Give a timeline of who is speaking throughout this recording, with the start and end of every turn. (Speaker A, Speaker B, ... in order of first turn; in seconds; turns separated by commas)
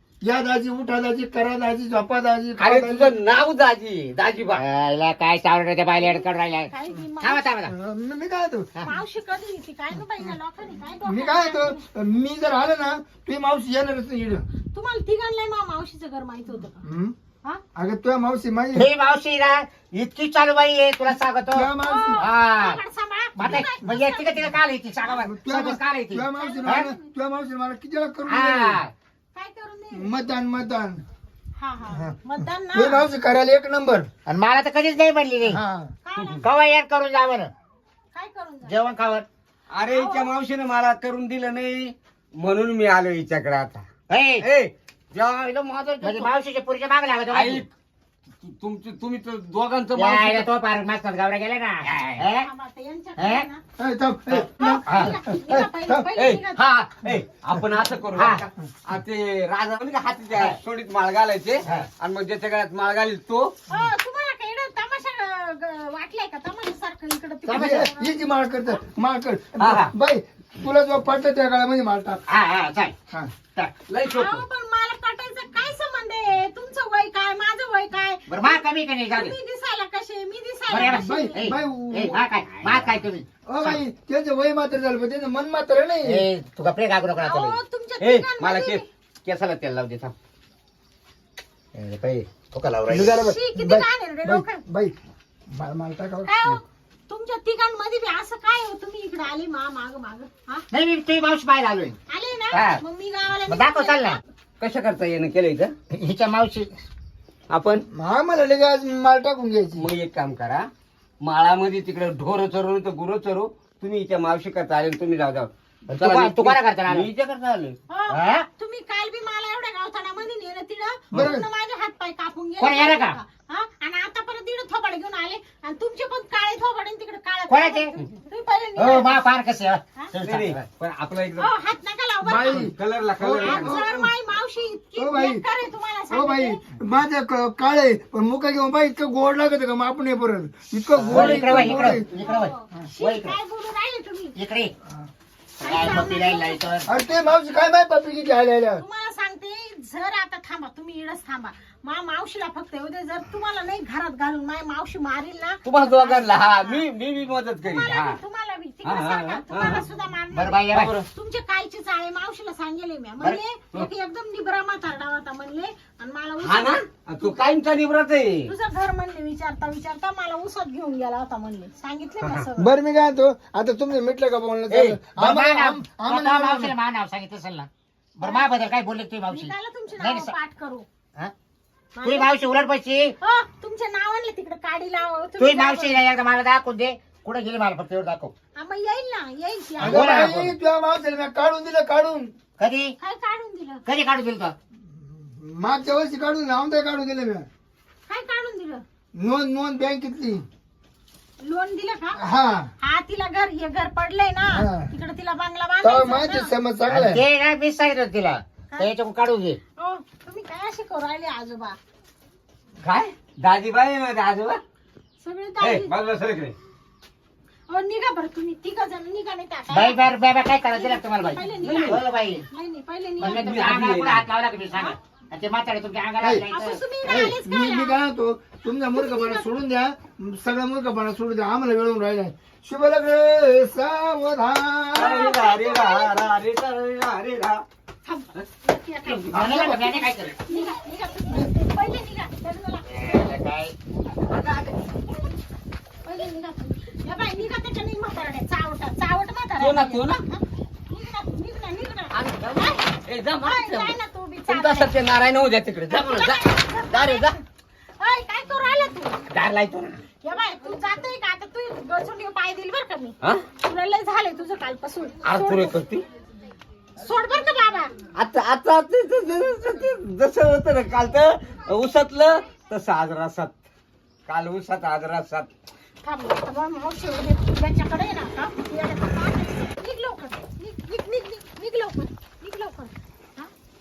Speaker A: 0.2-3.1, Speaker B: 2.6-4.6, Speaker C: 4.5-7.7, Speaker D: 5.9-7.4, Speaker A: 7.7-8.7, Speaker D: 8.8-11.8, Speaker A: 11.0-14.4, Speaker D: 14.7-16.8, Speaker A: 16.8-17.1, Speaker A: 17.7-18.9, Speaker C: 18.7-22.8, Speaker A: 21.5-22.2, Speaker D: 21.8-24.6, Speaker C: 23.4-26.9, Speaker A: 25.3-28.8, Speaker D: 26.3-27.1, Speaker C: 28.3-28.9, Speaker D: 29.3-30.2, Speaker A: 29.9-31.0, Speaker D: 31.6-33.1, Speaker A: 32.7-34.1, Speaker C: 34.2-35.6, Speaker A: 35.5-35.9, Speaker D: 36.0-36.5, Speaker C: 36.4-37.5, Speaker D: 38.1-38.8, Speaker C: 38.6-39.2, Speaker B: 39.7-43.9, Speaker D: 39.9-40.3, Speaker C: 44.1-44.5, Speaker B: 44.4-46.3, Speaker C: 46.0-47.6, Speaker B: 47.3-47.7, Speaker B: 48.4-50.5, Speaker C: 49.9-52.5, Speaker B: 51.9-52.2, Speaker D: 52.4-53.6, Speaker C: 53.2-53.5, Speaker A: 53.8-56.1, Speaker D: 54.5-56.6, Speaker C: 54.8-55.2, Speaker B: 56.2-63.5, Speaker C: 58.1-58.4, Speaker C: 61.6-61.9, Speaker D: 63.7-68.8, Speaker C: 67.5-67.9, Speaker A: 67.5-72.2, Speaker B: 69.6-69.9, Speaker C: 72.3-72.9, Speaker B: 73.9-74.4, Speaker D: 74.0-81.5, Speaker C: 78.3-79.3, Speaker C: 80.7-83.8, Speaker A: 80.8-82.2, Speaker B: 82.4-82.9, Speaker A: 83.5-86.2, Speaker C: 86.0-87.6, Speaker D: 87.2-88.8, Speaker B: 88.0-90.1, Speaker C: 91.7-93.2, Speaker A: 92.9-95.0, Speaker D: 93.2-94.6, Speaker A: 95.5-96.6, Speaker D: 96.2-100.6, Speaker C: 100.7-102.0, Speaker D: 102.1-104.2, Speaker B: 102.5-102.8, Speaker C: 103.5-104.2, Speaker B: 104.6-105.7, Speaker C: 105.9-106.7, Speaker B: 107.5-107.8, Speaker A: 107.9-109.9, Speaker B: 109.7-110.7, Speaker B: 111.2-117.8, Speaker C: 115.9-117.1, Speaker D: 117.9-129.2, Speaker C: 118.1-118.5, Speaker A: 121.1-121.5, Speaker C: 122.6-123.2, Speaker C: 127.5-127.9, Speaker C: 128.8-130.7, Speaker B: 130.2-131.5, Speaker D: 131.4-132.7, Speaker A: 132.2-134.1, Speaker B: 132.5-133.8, Speaker D: 133.4-136.6, Speaker A: 134.9-135.4, Speaker A: 136.1-142.1, Speaker B: 140.9-141.9, Speaker C: 141.0-143.4, Speaker D: 142.1-144.3, Speaker C: 144.3-144.7, Speaker D: 145.6-146.6, Speaker C: 145.6-146.9, Speaker A: 146.9-148.8, Speaker D: 148.8-156.8, Speaker B: 155.6-158.2, Speaker D: 157.7-167.4, Speaker B: 158.8-159.8, Speaker C: 160.3-161.0, Speaker B: 160.7-161.0, Speaker B: 166.4-168.5, Speaker D: 168.5-172.7, Speaker A: 172.6-176.7, Speaker B: 174.7-175.0, Speaker C: 175.1-180.3, Speaker D: 178.2-178.5, Speaker D: 179.3-180.8, Speaker D: 181.9-182.3, Speaker C: 182.0-183.1, Speaker D: 183.2-186.0, Speaker C: 185.4-188.3, Speaker D: 188.6-190.3, Speaker C: 189.8-190.5, Speaker A: 189.8-192.3, Speaker C: 192.6-192.9, Speaker D: 193.0-193.8, Speaker C: 193.8-194.5, Speaker A: 195.1-197.4, Speaker D: 198.1-198.8, Speaker A: 199.1-200.4, Speaker D: 201.4-202.2, Speaker A: 202.2-202.7, Speaker D: 202.8-206.5, Speaker A: 204.5-204.9, Speaker A: 205.8-207.2, Speaker C: 206.9-209.6, Speaker D: 209.8-211.8, Speaker B: 212.8-214.6, Speaker D: 215.2-215.9, Speaker B: 215.6-216.6, Speaker D: 217.7-220.1, Speaker C: 219.7-222.4, Speaker D: 220.7-223.8, Speaker B: 221.6-222.0, Speaker C: 223.2-226.8, Speaker B: 223.2-224.2, Speaker A: 226.2-226.4, Speaker D: 226.5-228.0, Speaker A: 227.0-235.4, Speaker D: 228.9-229.5, Speaker B: 234.9-237.6, Speaker D: 234.9-236.3, Speaker D: 238.0-239.8, Speaker B: 239.0-239.9, Speaker C: 239.3-240.4, Speaker D: 240.4-243.4, Speaker C: 242.8-243.7, Speaker B: 244.1-245.0, Speaker D: 246.0-254.9, Speaker B: 249.6-250.2, Speaker B: 252.1-253.9, Speaker B: 254.5-257.4, Speaker D: 255.9-257.4, Speaker D: 258.0-259.2, Speaker B: 259.3-260.0, Speaker D: 260.2-265.8, Speaker B: 265.2-266.0, Speaker D: 267.0-267.9, Speaker B: 268.1-273.6, Speaker B: 274.3-275.5, Speaker D: 276.0-283.5